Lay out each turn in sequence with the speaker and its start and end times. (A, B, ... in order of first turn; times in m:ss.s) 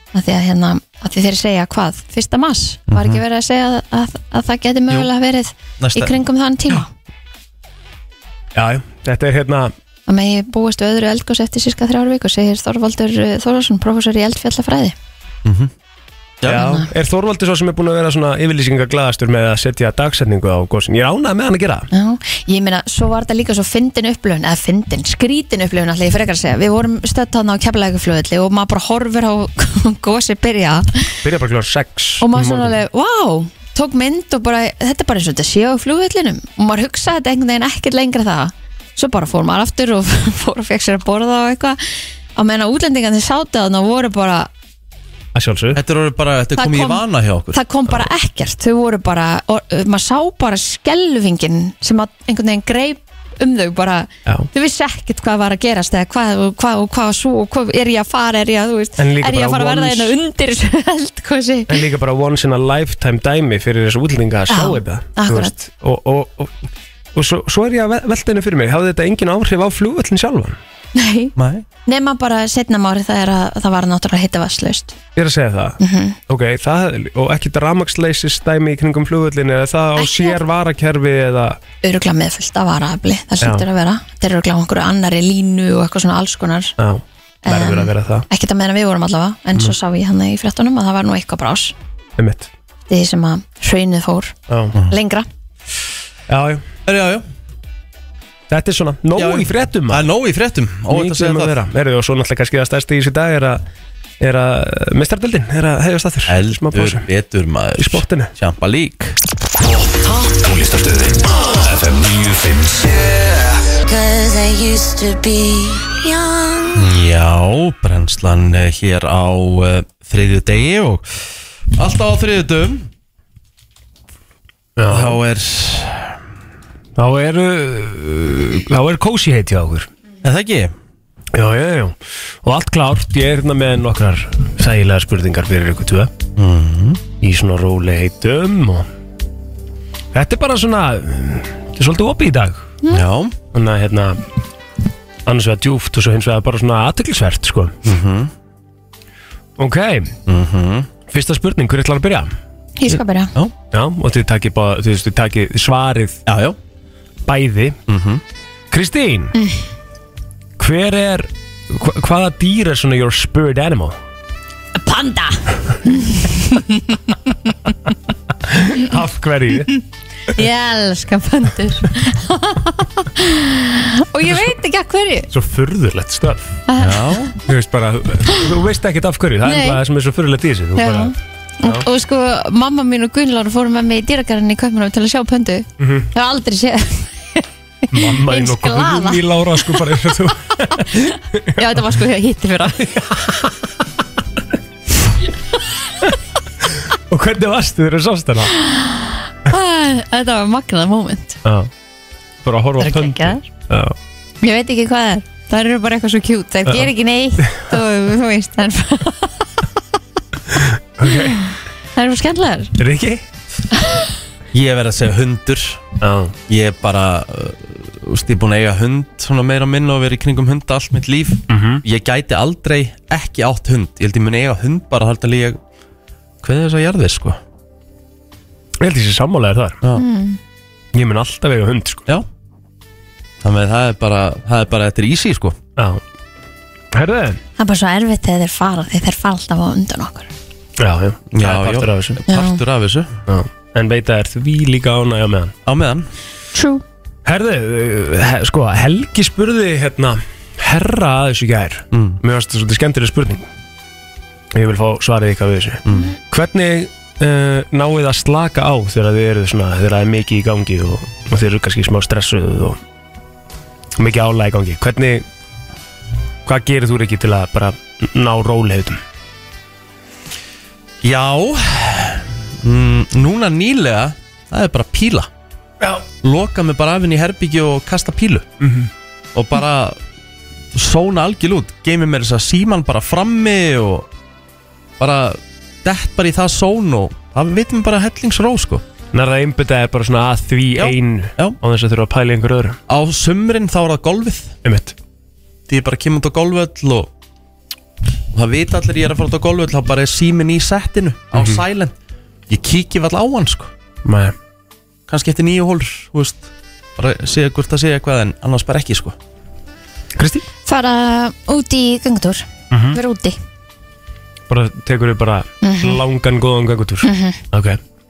0:00.1-0:06.9 A
0:02.9-0:03.2 B
0:05.8-0:06.2 B
0:08.5-0:09.7 C
0:10.1-0:15.0 A
0:15.4-0:15.7 B
0:16.4-0:16.8 B
0:16.5-0:21.9 C
0:16.5-0:16.9 A
0:21.9-0:31.2 A
0:31.2-0:32.8 C
0:32.2-0:41.8 A
0:42.3-0:44.5 A
0:45.3-0:45.8 C
0:45.7-0:47.6 B
0:46.6-1:01.8 A
0:59.0-1:00.1 C
1:01.7-1:10.6 C
1:04.5-1:05.5 A
1:10.9-1:11.3 A
1:11.4-1:11.6 B
1:11.8-1:15.0 A
1:15.2-1:21.6 C
1:15.8-1:16.2 A
1:20.0-1:20.4 A
1:21.8-1:26.8 A
1:26.8-1:28.2 C
1:27.4-1:31.7 A
1:32.2-1:32.5 C
1:32.9-1:34.3 A
1:34.5-1:34.8 C
1:34.9-1:35.3 A
1:36.3-1:36.6 C
1:36.8-1:37.2 B
1:38.5-1:40.1 C
1:39.2-1:41.6 B
1:40.9-1:43.6 C
1:44.2-1:47.0 C
1:46.3-1:49.2 B
1:47.8-1:48.3 C
1:49.6-1:53.5 D
1:53.9-1:56.8 E
1:56.7-2:01.0 B
2:01.7-2:02.9 B
2:04.8-2:05.2 C
2:04.9-2:06.2 B
2:07.0-2:09.9 C
2:10.2-2:10.7 B
2:11.3-2:16.1 C
2:16.4-2:17.0 B
2:17.2-2:18.9 C
2:20.1-2:22.7 C
2:22.9-2:23.4 B
2:23.5-2:24.2 C
2:25.2-2:27.8 C
2:27.8-2:28.3 B
2:29.6-2:30.1 C
2:30.3-2:30.9 B
2:31.1-2:32.3 C
2:32.8-2:33.3 A
2:33.7-2:36.2 C
2:36.3-2:36.6 B
2:37.2-2:37.8 C
2:37.9-2:38.2 B
2:38.7-2:39.3 C
2:40.6-2:44.0 C
2:44.7-2:47.0 A
2:48.5-2:49.7 C
2:49.7-2:55.3 A
2:54.3-2:54.5 C
2:55.3-2:56.5 C
2:56.7-2:57.3 A
2:56.8-2:57.3 B
2:57.4-3:01.8 C
2:59.4-2:59.8 A
3:00.8-3:12.9 A
3:05.8-3:06.1 C
3:07.9-3:11.6 C
3:12.8-3:13.5 C
3:16.8-3:18.5 C
3:18.6-3:21.4 A
3:21.4-3:21.7 C
3:22.4-3:23.9 C
3:22.8-3:23.4 A
3:24.4-3:29.4 A
3:30.5-3:31.4 C
3:31.0-3:32.7 A
3:32.8-3:33.2 C
3:34.5-3:35.8 B
3:36.0-3:36.3 C
3:36.5-3:45.6 B
3:41.5-3:41.8 C
3:46.4-3:47.4 B
3:48.8-3:49.8 C
3:49.9-3:50.4 A
3:50.9-3:52.0 C
3:53.4-3:55.6 B
3:56.9-3:57.4 C
3:57.6-4:00.3 A
4:00.8-4:02.2 C
4:01.3-4:03.1 B
4:02.3-4:02.6 A
4:03.3-4:05.5 C
4:05.6-4:06.1 B
4:06.5-4:06.8 A
4:07.2-4:13.4 C
4:11.9-4:12.2 B
4:14.5-4:22.8 C
4:15.8-4:16.1 B
4:24.0-4:25.2 C
4:26.4-4:29.0 C
4:31.0-4:35.3 B
4:36.2-4:38.5 B
4:38.6-4:38.9 C
4:39.3-4:40.0 B
4:40.7-4:44.1 B
4:45.0-4:48.8 B
4:49.1-4:52.8 C
4:50.8-4:51.6 B
4:52.9-4:54.5 B
4:54.6-4:54.9 C
4:55.7-4:57.1 B
4:58.3-5:01.9 B
5:01.3-5:01.6 C
5:02.5-5:03.7 B
5:04.0-5:04.3 C
5:05.1-5:09.2 B
5:10.2-5:10.4 C
5:10.6-5:13.4 A
5:12.7-5:13.0 C
5:14.5-5:17.8 C
5:15.6-5:16.0 A
5:17.0-5:17.4 A